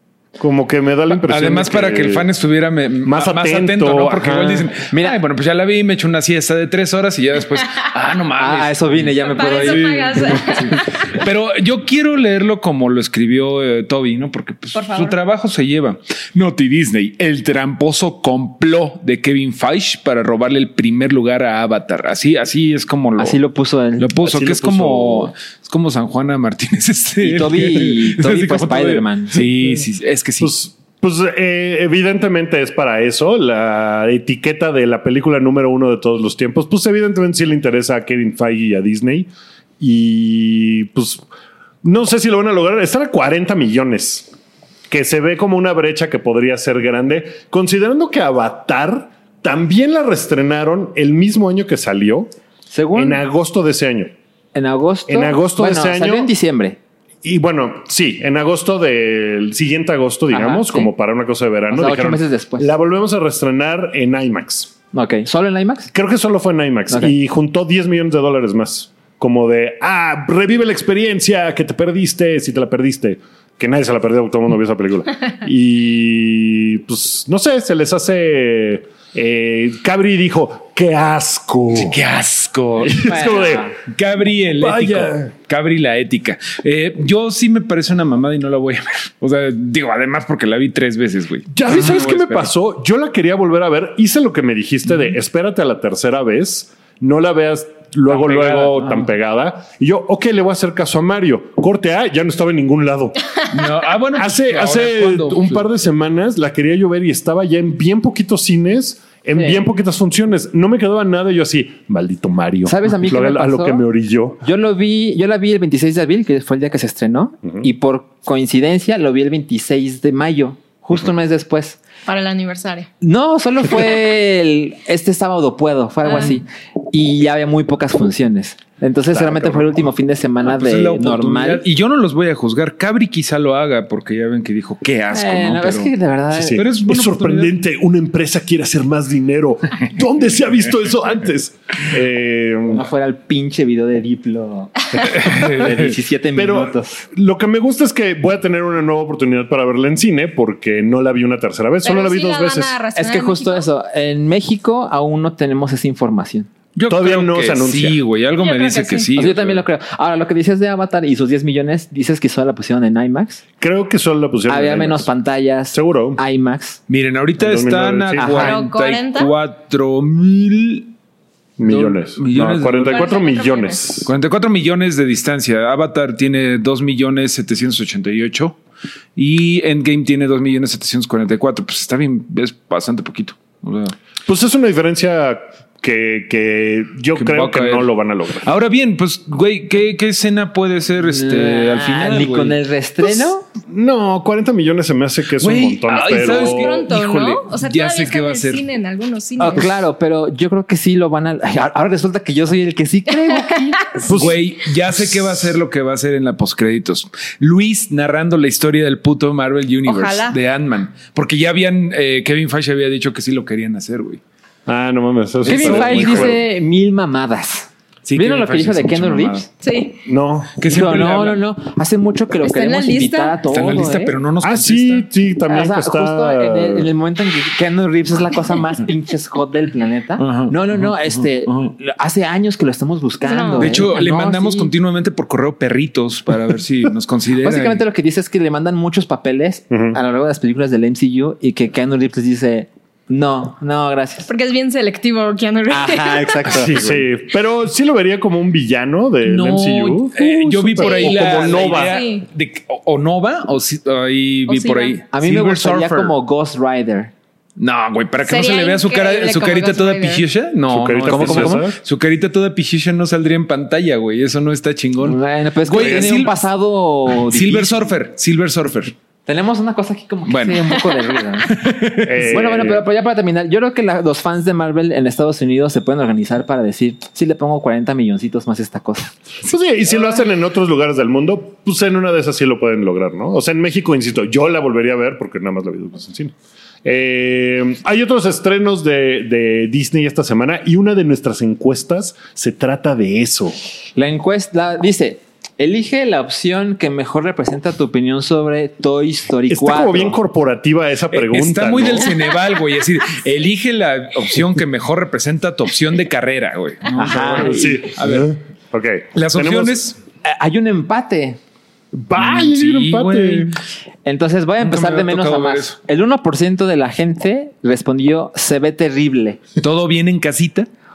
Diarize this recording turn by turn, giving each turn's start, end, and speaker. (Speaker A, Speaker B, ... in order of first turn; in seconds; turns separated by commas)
Speaker A: 0.4-2.3, Speaker B: 1.2-23.4, Speaker A: 3.0-4.7, Speaker C: 4.9-5.2, Speaker C: 8.4-10.8, Speaker D: 9.2-11.2, Speaker D: 14.7-15.2, Speaker C: 23.2-24.1, Speaker B: 24.0-30.5, Speaker A: 24.2-25.3, Speaker C: 27.2-29.4, Speaker A: 29.3-29.9, Speaker A: 30.4-39.3, Speaker A: 39.8-41.2, Speaker A: 41.8-44.3, Speaker A: 44.9-52.3, Speaker C: 52.7-53.2, Speaker A: 52.9-54.1, Speaker C: 54.5-56.8, Speaker A: 55.1-56.3, Speaker A: 57.2-64.7, Speaker C: 60.3-60.9, Speaker C: 61.7-62.7, Speaker C: 64.9-65.9, Speaker A: 65.9-82.0, Speaker C: 66.9-67.1, Speaker B: 81.7-92.5, Speaker A: 82.8-83.7, Speaker C: 83.0-83.8, Speaker A: 84.5-85.3, Speaker A: 91.5-103.2, Speaker B: 98.1-99.1, Speaker B: 103.5-105.6, Speaker A: 104.1-114.4, Speaker C: 109.3-109.6, Speaker C: 112.6-113.8, Speaker C: 114.4-121.8, Speaker D: 122.0-122.9, Speaker C: 123.0-131.7, Speaker D: 126.0-126.4, Speaker A: 129.1-129.7, Speaker B: 130.4-135.9, Speaker C: 135.1-136.6, Speaker A: 136.3-142.8, Speaker B: 136.5-137.5, Speaker C: 142.7-147.1, Speaker B: 145.0-145.9, Speaker A: 146.3-152.8, Speaker D: 151.8-153.7, Speaker C: 152.9-156.5, Speaker B: 156.7-159.6, Speaker A: 156.9-158.0, Speaker D: 158.4-159.1, Speaker C: 159.2-163.4, Speaker A: 163.6-165.1, Speaker C: 164.5-166.8, Speaker A: 165.7-166.2, Speaker B: 166.9-170.9, Speaker A: 167.4-168.5, Speaker C: 168.2-168.6, Speaker D: 168.4-169.3, Speaker A: 171.6-174.1, Speaker B: 171.6-173.1, Speaker D: 172.9-173.8, Speaker B: 174.1-178.6, Speaker B: 179.1-183.9, Speaker A: 184.2-188.5, Speaker B: 187.2-187.9, Speaker B: 188.4-192.6, Speaker C: 191.1-193.4, Speaker A: 193.0-196.7, Speaker B: 195.4-198.6, Speaker D: 195.9-199.7, Speaker C: 199.4-204.2, Speaker A: 204.0-205.4, Speaker B: 204.1-214.2, Speaker D: 209.8-210.4, Speaker A: 214.7-216.4, Speaker B: 215.4-216.4, Speaker C: 215.4-219.5, Speaker B: 218.0-219.5, Speaker D: 219.6-220.0, Speaker A: 220.1-220.6, Speaker B: 220.6-221.4, Speaker C: 220.7-224.1, Speaker D: 222.4-223.4, Speaker B: 223.5-225.1, Speaker A: 224.4-226.9, Speaker C: 225.5-234.7, Speaker B: 230.2-231.7, Speaker D: 233.2-233.9, Speaker B: 233.6-237.8, Speaker C: 237.4-244.3, Speaker A: 239.7-240.0, Speaker D: 244.3-246.6, Speaker C: 245.7-247.1, Speaker A: 246.5-252.0, Speaker B: 249.2-256.1, Speaker D: 250.2-252.2, Speaker D: 254.5-255.0, Speaker C: 255.1-257.1, Speaker B: 257.6-266.4, Speaker D: 258.2-260.2, Speaker A: 260.7-261.8, Speaker C: 261.0-261.7, Speaker C: 265.0-267.9, Speaker A: 265.8-266.1, Speaker B: 267.1-268.9, Speaker C: 269.2-271.5, Speaker B: 270.2-270.8, Speaker B: 271.4-272.8, Speaker A: 272.0-272.8, Speaker C: 272.3-279.1, Speaker A: 279.4-286.3, Speaker A: 286.8-293.6, Speaker C: 293.9-300.2, Speaker A: 299.5-302.1, Speaker B: 301.1-308.3, Speaker C: 306.9-307.8, Speaker A: 307.0-309.9, Speaker B: 309.1-310.0, Speaker C: 310.2-311.4, Speaker A: 311.9-313.6, Speaker B: 312.2-313.6, Speaker C: 314.0-319.4, Speaker B: 314.6-315.7, Speaker B: 319.6-320.7